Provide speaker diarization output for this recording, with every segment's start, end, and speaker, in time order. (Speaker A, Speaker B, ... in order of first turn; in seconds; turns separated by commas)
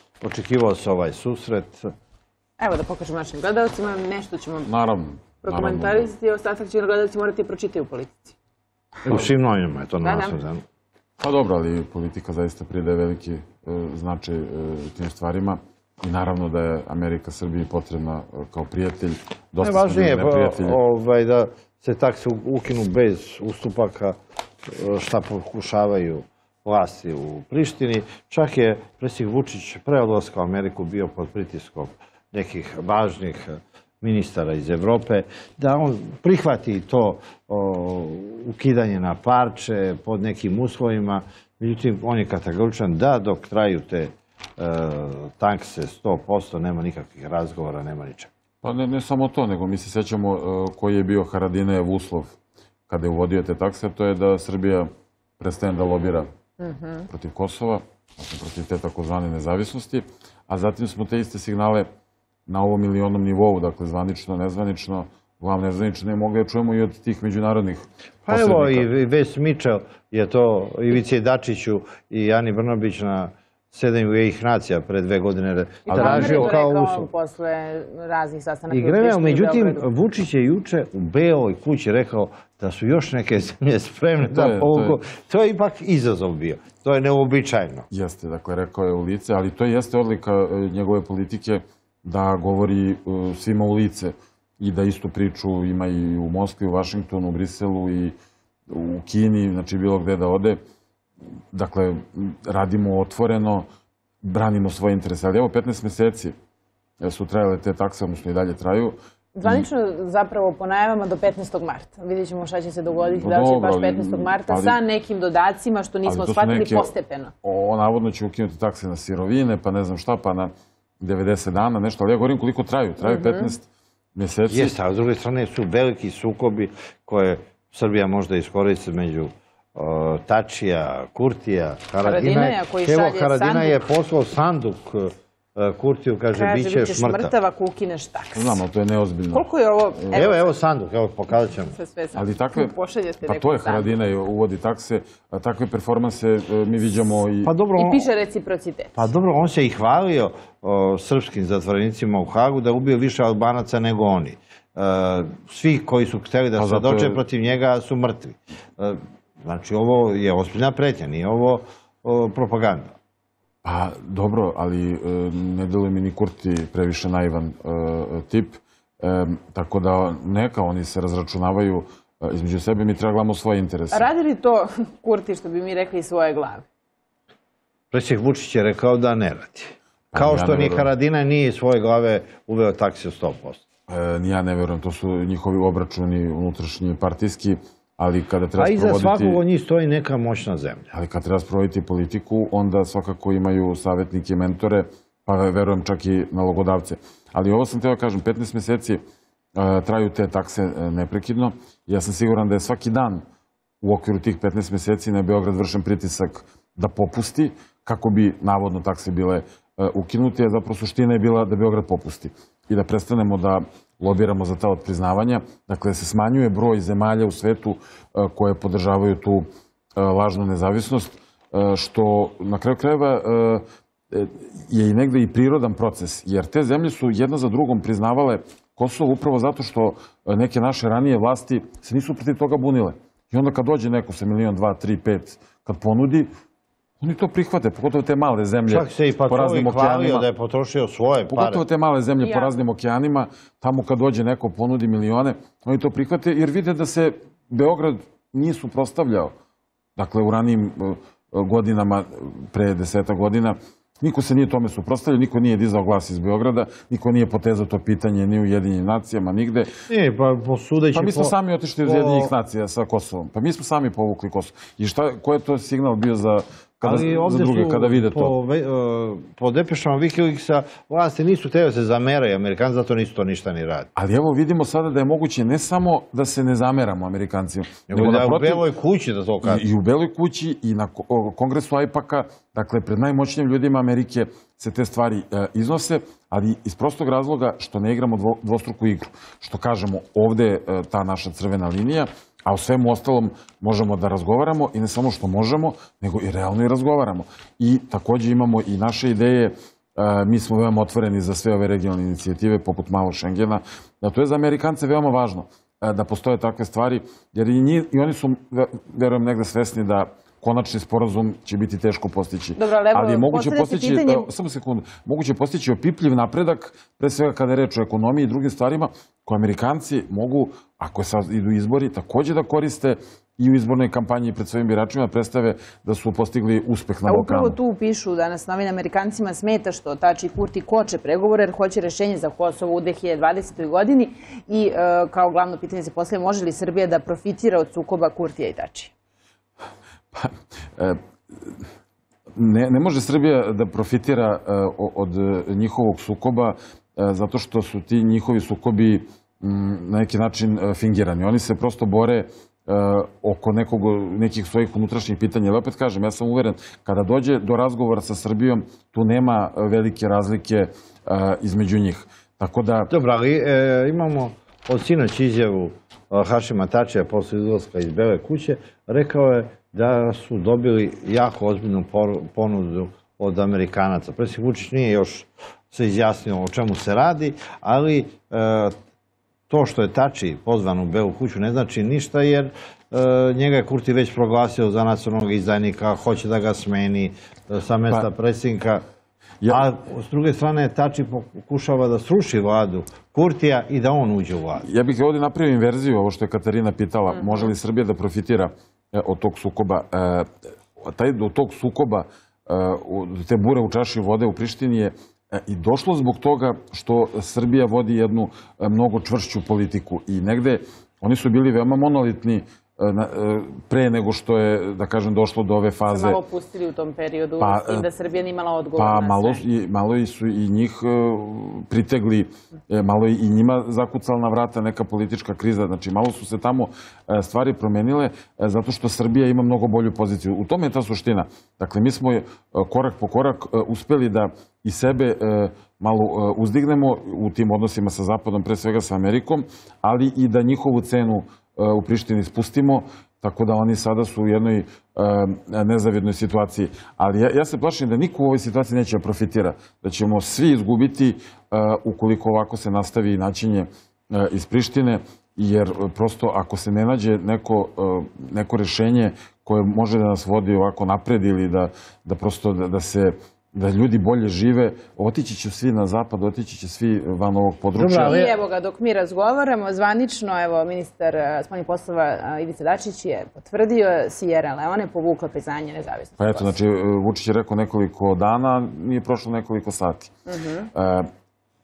Speaker A: 0.2-1.9, Speaker B: 2.6-4.7, Speaker C: 4.6-6.1, Speaker B: 5.4-8.4, Speaker A: 9.0-10.6, Speaker B: 10.0-10.4, Speaker C: 11.2-20.8, Speaker A: 19.6-48.3, Speaker C: 48.6-52.3, Speaker C: 52.9-56.3, Speaker B: 56.6-57.1, Speaker C: 57.1-61.9, Speaker C: 62.5-68.9, Speaker A: 68.3-77.1, Speaker B: 75.9-79.9, Speaker C: 75.9-76.6, Speaker A: 78.7-87.9, Speaker C: 84.2-85.0, Speaker C: 87.9-98.1, Speaker C: 98.7-100.6, Speaker C: 101.5-103.6, Speaker C: 104.2-106.3, Speaker C: 107.0-109.7, Speaker B: 109.4-117.3, Speaker C: 113.1-114.8, Speaker C: 116.0-116.9, Speaker C: 117.4-124.7, Speaker B: 123.0-123.5, Speaker A: 124.5-137.3, Speaker B: 132.0-133.8, Speaker B: 136.3-138.6, Speaker C: 138.3-140.2, Speaker B: 139.3-140.5, Speaker A: 140.1-141.8, Speaker B: 141.7-143.9, Speaker C: 142.1-147.5, Speaker A: 147.4-148.1, Speaker B: 147.8-149.1, Speaker A: 148.9-162.9, Speaker C: 156.6-157.2, Speaker C: 163.6-174.1, Speaker B: 173.9-176.7, Speaker A: 177.9-183.6, Speaker C: 180.1-180.9, Speaker C: 183.9-189.4, Speaker A: 188.6-190.9, Speaker C: 190.9-199.0, Speaker C: 199.6-203.2, Speaker C: 203.8-236.3, Speaker C: 237.0-240.3, Speaker A: 238.7-241.6, Speaker C: 241.3-249.3, Speaker B: 242.2-242.5, Speaker C: 250.0-259.7, Speaker A: 259.9-262.3, Speaker C: 260.9-268.3, Speaker A: 266.8-273.9, Speaker C: 273.9-278.6, Speaker A: 277.9-279.6, Speaker C: 279.4-327.6, Speaker B: 312.6-314.2, Speaker B: 327.1-338.9, Speaker C: 340.1-341.6, Speaker C: 342.4-362.9, Speaker A: 362.9-378.7, Speaker A: 379.5-388.8, Speaker A: 389.5-394.7, Speaker C: 394.6-416.2, Speaker B: 397.2-397.5, Speaker B: 415.9-419.4, Speaker C: 417.4-417.9, Speaker C: 418.8-468.2, Speaker A: 467.8-468.4, Speaker B: 468.0-476.5, Speaker C: 476.2-480.1, Speaker B: 480.3-480.7, Speaker C: 480.7-481.1